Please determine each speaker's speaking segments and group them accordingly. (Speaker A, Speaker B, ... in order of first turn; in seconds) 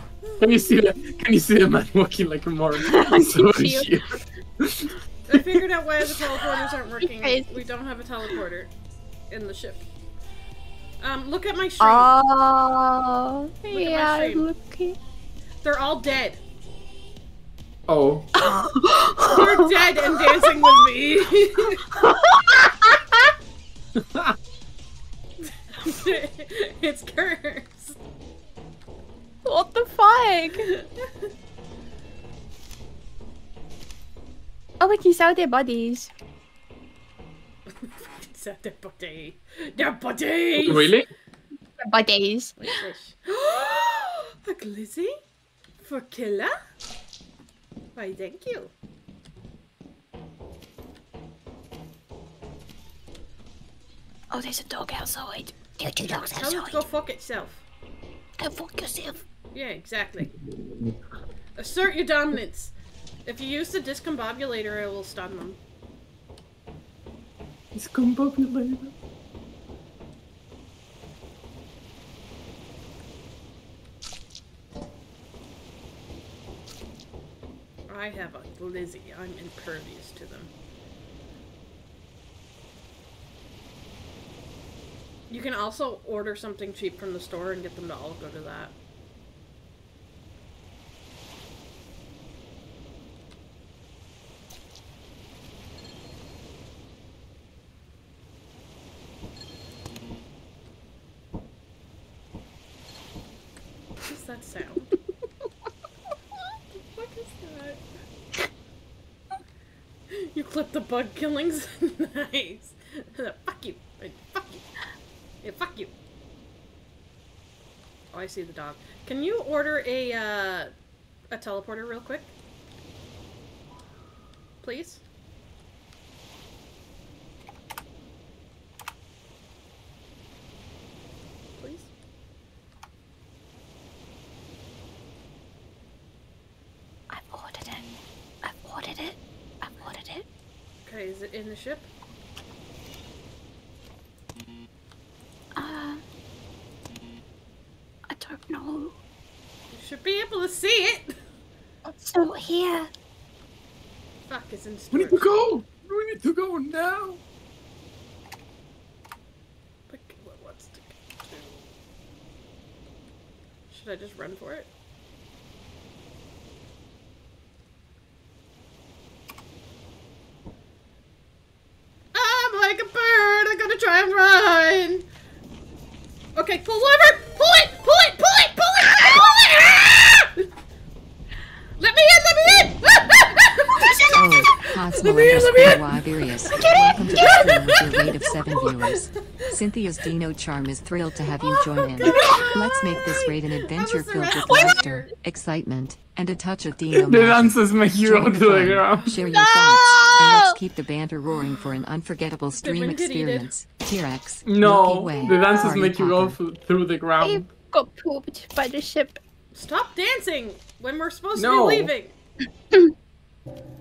Speaker A: 0.4-4.9, 17.9-18.4, 24.0-24.4, 40.6-41.1, 60.5-61.0, 67.7-68.9, 154.9-157.2, 197.0-199.1, 204.5-207.5, 211.3-211.9
Speaker B: 2.8-4.0, 6.5-7.6, 11.8-15.0, 18.4-20.7, 22.0-23.1, 29.4-30.7, 34.8-36.1, 41.8-42.8, 54.3-56.8, 58.4-59.2, 137.1-137.9, 138.4-140.2, 145.6-146.0, 148.1-148.9, 151.9-152.9, 186.6-187.6, 199.3-200.6, 207.2-209.2
Speaker C: 5.3-8.7, 9.3-9.9, 11.0-12.1, 13.7-14.5, 15.6-16.4, 19.3-21.9, 25.7-28.0, 30.6-31.1, 37.7-41.0, 42.6-45.2, 45.8-46.6, 48.0-48.7, 56.0-57.6, 59.5-60.3, 61.6-65.6, 77.9-80.5, 85.3-88.7, 104.1-104.9, 106.8-107.8, 110.1-114.7, 115.4-115.9, 118.1-120.7, 121.3-122.3, 124.6-125.0, 131.6-131.9, 140.9-141.9, 149.7-151.2, 154.3-155.3, 159.9-161.6, 163.7-164.7, 172.1-175.1, 176.4-180.4, 181.8-185.9, 186.6-189.6, 191.4-195.1, 202.5-203.6, 209.5-212.1
Speaker D: 184.1-206.4